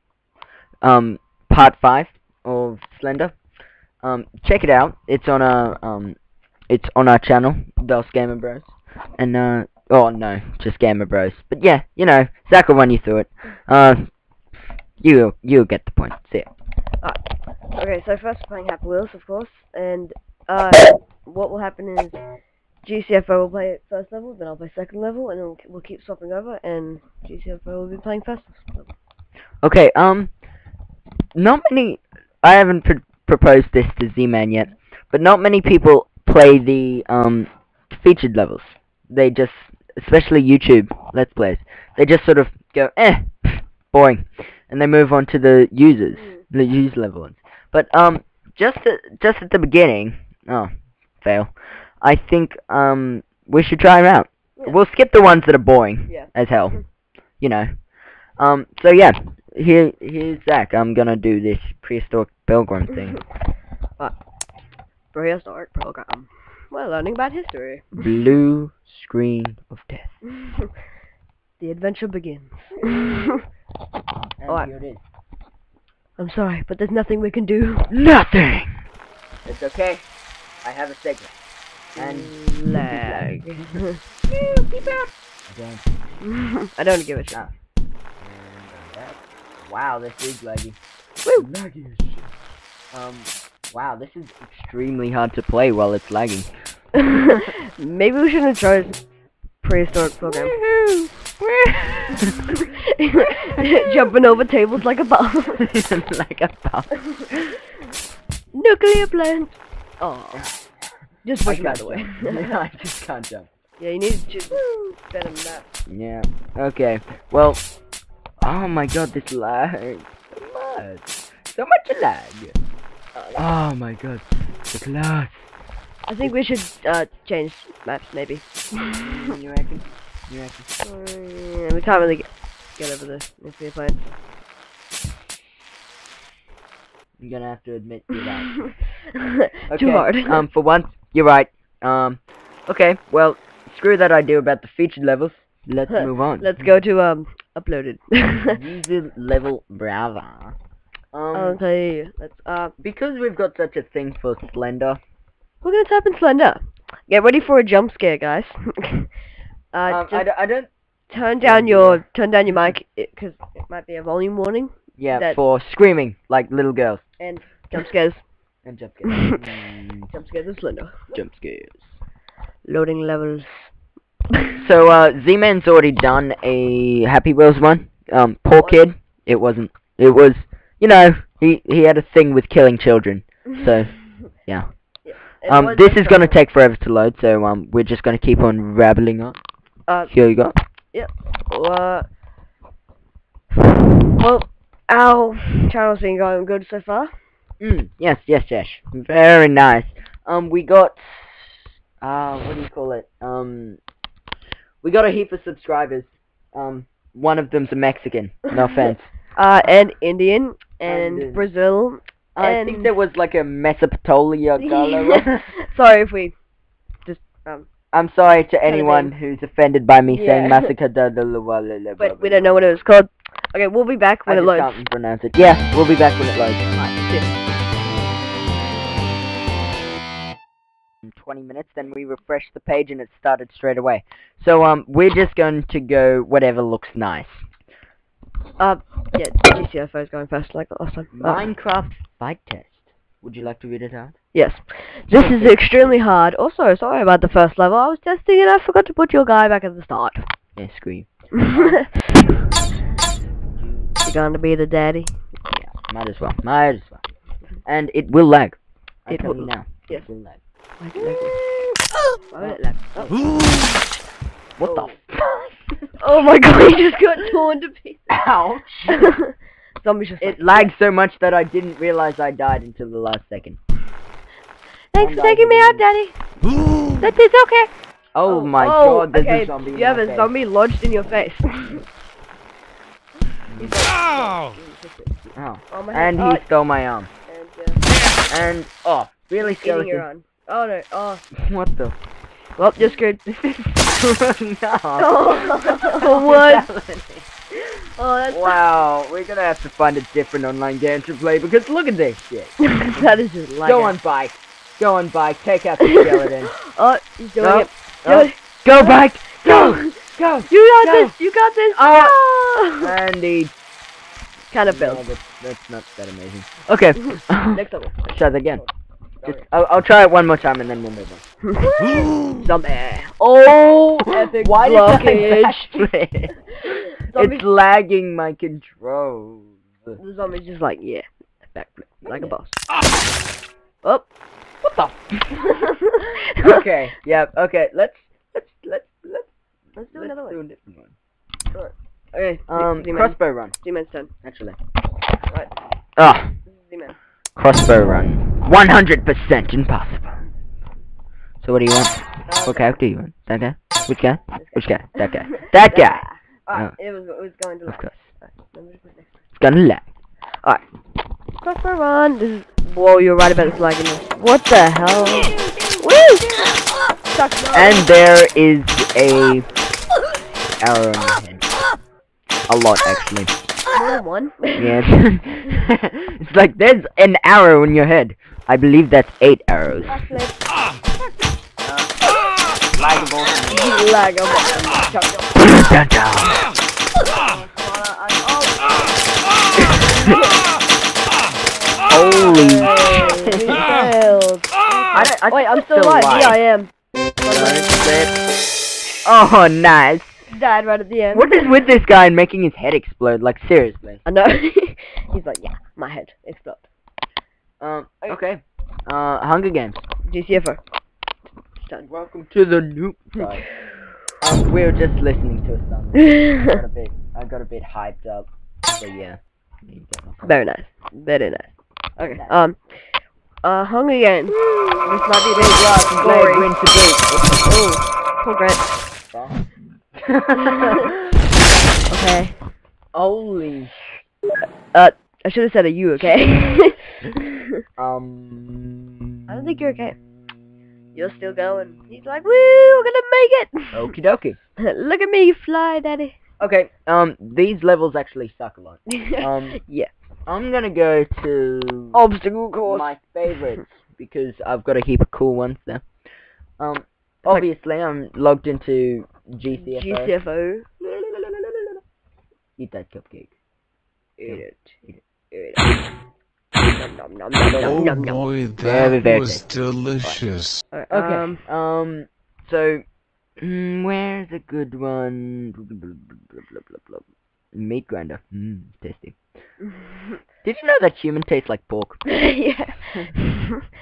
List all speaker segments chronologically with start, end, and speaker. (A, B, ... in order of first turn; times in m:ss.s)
0:00.8-0:03.4 A
0:04.0-0:06.2 A
0:06.7-0:14.1 A
0:15.0-0:16.5 A
0:17.8-0:22.2 B
0:22.8-0:28.9 B
0:29.6-0:30.3 A
0:31.4-0:50.7 A
0:51.2-0:56.8 A
0:57.4-0:57.7 A
0:58.4-1:03.2 A
1:05.1-1:08.1 B
1:08.0-1:10.2 A
1:10.3-1:10.7 B
1:11.6-1:13.4 B
1:14.4-1:15.0 A
1:16.2-1:17.9 B
1:17.9-1:18.8 A
1:19.4-1:20.1 A
1:20.6-1:21.4 A
1:22.0-1:25.9 A
1:22.0-1:24.0 B
1:26.3-1:27.4 B
1:28.2-1:30.8 A
1:31.3-1:32.3 A
1:32.9-1:36.5 A
1:37.0-1:39.0 B
1:39.6-1:40.6 B
1:40.2-1:42.6 A
1:42.6-1:45.6 B
1:43.1-1:44.1 A
1:45.6-1:47.6 A
1:48.5-1:50.5 B
1:50.3-1:50.6 A
1:51.2-1:52.5 B
1:51.5-1:53.5 A
1:53.8-1:55.6 B
1:54.5-1:54.8 A
1:55.9-1:57.6 A
1:58.4-2:02.6 A
2:03.3-2:05.5 A
2:06.1-2:09.1 B
2:09.0-2:10.7 A
2:10.8-2:14.1 B
2:17.2-2:18.7 A
2:18.4-2:20.4 B
2:19.7-2:26.6 A
2:25.9-2:28.6 B
2:28.5-2:30.6 A
2:31.1-2:31.6 A
2:31.3-2:32.7 B
2:32.8-2:35.0 A
2:35.6-2:39.1 B
2:39.7-2:40.3 B
2:39.9-2:40.7 A
2:41.1-2:45.4 B
2:41.4-2:42.0 A
2:45.0-2:47.0 A
2:47.2-2:48.2 B
2:48.6-2:50.1 A
2:49.1-2:49.4 B
2:50.1-2:51.1 B
2:51.2-2:51.9 A
2:52.7-2:53.7 B
2:54.6-3:04.0 A
2:58.6-2:58.8 B
3:05.1-3:06.4 B
3:05.5-3:09.4 A
3:10.1-3:10.6 A
3:10.9-3:12.1 B
3:13.6-3:17.1 B
3:17.6-3:23.8 A
3:24.8-3:29.1 A
3:29.4-3:32.9 B
3:30.8-3:31.5 A
3:32.4-3:35.6 A
3:34.6-3:36.3 B
3:37.1-3:37.7 B
3:37.9-3:42.5 A
3:38.7-3:39.1 B
3:40.1-3:40.7 B
3:42.0-3:44.8 B
3:44.3-3:46.7 A
3:46.8-3:47.4 B
3:51.0-3:57.4 A
3:58.6-4:01.5 B
4:01.1-4:04.2 A
4:04.3-4:10.3 B
4:05.1-4:05.9 A
4:10.6-4:12.4 A
4:11.3-4:11.9 B
4:14.0-4:15.2 B
4:15.5-4:17.0 A
4:17.7-4:20.4 A
4:19.1-4:20.1 B
4:20.8-4:21.4 B
4:21.0-4:21.3 A
4:22.3-4:23.3 B
4:22.4-4:23.1 A
4:24.6-4:25.6 A
4:24.6-4:25.0 B
4:26.0-4:28.1 B
4:28.1-4:29.2 A
4:28.9-4:30.7 B
4:30.2-4:33.6 A
4:34.9-4:36.2 B
4:35.0-4:35.9 A
4:37.0-4:40.3 A
4:38.2-4:41.9 B
4:43.3-4:46.4 B
4:43.5-4:43.8 A
4:45.4-4:47.1 A
4:47.3-4:47.8 B
4:48.3-4:50.0 A
4:49.4-4:51.2 B
4:51.4-4:52.0 A
4:52.6-4:53.4 B
4:53.3-4:57.3 A
4:55.0-4:56.6 B
4:58.0-4:58.6 B
4:58.3-5:03.1 A
5:02.6-5:03.9 B
5:03.6-5:06.5 A
5:05.8-5:12.9 B
5:07.4-5:11.1 A
5:11.7-5:13.5 A
5:14.5-5:15.1 B
5:14.7-5:18.6 A
5:17.1-5:18.7 B
5:19.2-5:21.2 A
5:21.5-5:23.1 B
5:23.2-5:30.0 A
5:24.1-5:25.9 B
5:26.6-5:27.4 B
5:30.0-5:32.6 B
5:32.0-5:32.3 A
5:34.6-5:35.5 A
5:35.4-5:36.7 B
5:36.4-5:39.3 A
5:39.8-5:40.4 B
5:39.9-5:40.9 A
5:41.5-5:44.1 B
5:42.5-5:43.5 A
5:44.2-5:44.6 A
5:46.0-5:46.3 A
5:46.5-5:47.0 B
5:47.4-5:50.2 A
5:51.4-5:56.7 A
5:52.3-5:52.8 B
5:54.4-5:59.1 B
5:57.7-5:57.9 A
5:59.4-5:59.8 A
6:01.4-6:06.4 B
6:05.3-6:05.7 A
6:07.1-6:07.9 B
6:07.5-6:09.5 A
6:10.6-6:11.5 A
6:12.5-6:13.3 A
6:13.7-6:14.8 B
6:14.6-6:20.0 A
6:19.8-6:20.4 B
6:21.6-6:21.9 A
6:22.7-6:23.8 A
6:23.5-6:25.7 B
6:25.4-6:26.5 A
6:27.0-6:29.0 B
6:29.5-6:30.3 B
6:29.6-6:30.2 A
6:31.6-6:36.7 B
6:31.9-6:33.7 A
6:34.9-6:36.4 A
6:37.2-6:38.0 B
6:37.3-6:38.1 A
6:39.0-6:40.2 A
6:40.3-6:41.5 B
6:41.1-6:44.0 A
6:44.1-6:46.7 B
6:47.6-6:49.8 A
6:50.1-6:50.6 B
6:51.6-6:51.9 B
6:51.8-6:53.5 A
6:53.2-6:53.4 B
6:54.2-7:00.3 A
6:56.0-6:56.6 B
7:00.2-7:02.6 B
7:02.0-7:02.3 A
7:03.4-7:06.5 B
7:04.3-7:07.4 A
7:07.4-7:08.6 B
7:09.1-7:11.2 A
7:10.4-7:10.9 B
7:11.9-7:12.4 B
7:12.9-7:13.7 A
7:14.7-7:17.5 B
7:17.8-7:20.3 A
7:19.3-7:20.0 B
7:21.0-7:23.9 B
7:23.7-7:24.4 A
7:24.6-7:26.2 B
7:26.4-7:29.6 A
7:28.9-7:29.9 B
7:30.3-7:32.0 A
7:31.9-7:33.0 B
7:32.6-7:35.9 A
7:36.6-7:40.1 A
7:39.5-7:40.7 B
7:40.8-7:41.7 A
7:42.6-7:43.4 A
7:44.2-7:45.0 A
7:44.2-7:45.7 B
7:46.6-7:48.2 B
7:47.6-7:50.6 C
7:48.6-7:49.4 A
7:50.0-7:51.4 B
7:50.9-7:52.8 A
7:53.4-7:57.0 A
7:57.5-7:59.2 A
7:59.7-8:00.0 B
8:00.4-8:02.1 A
8:02.1-8:03.6 B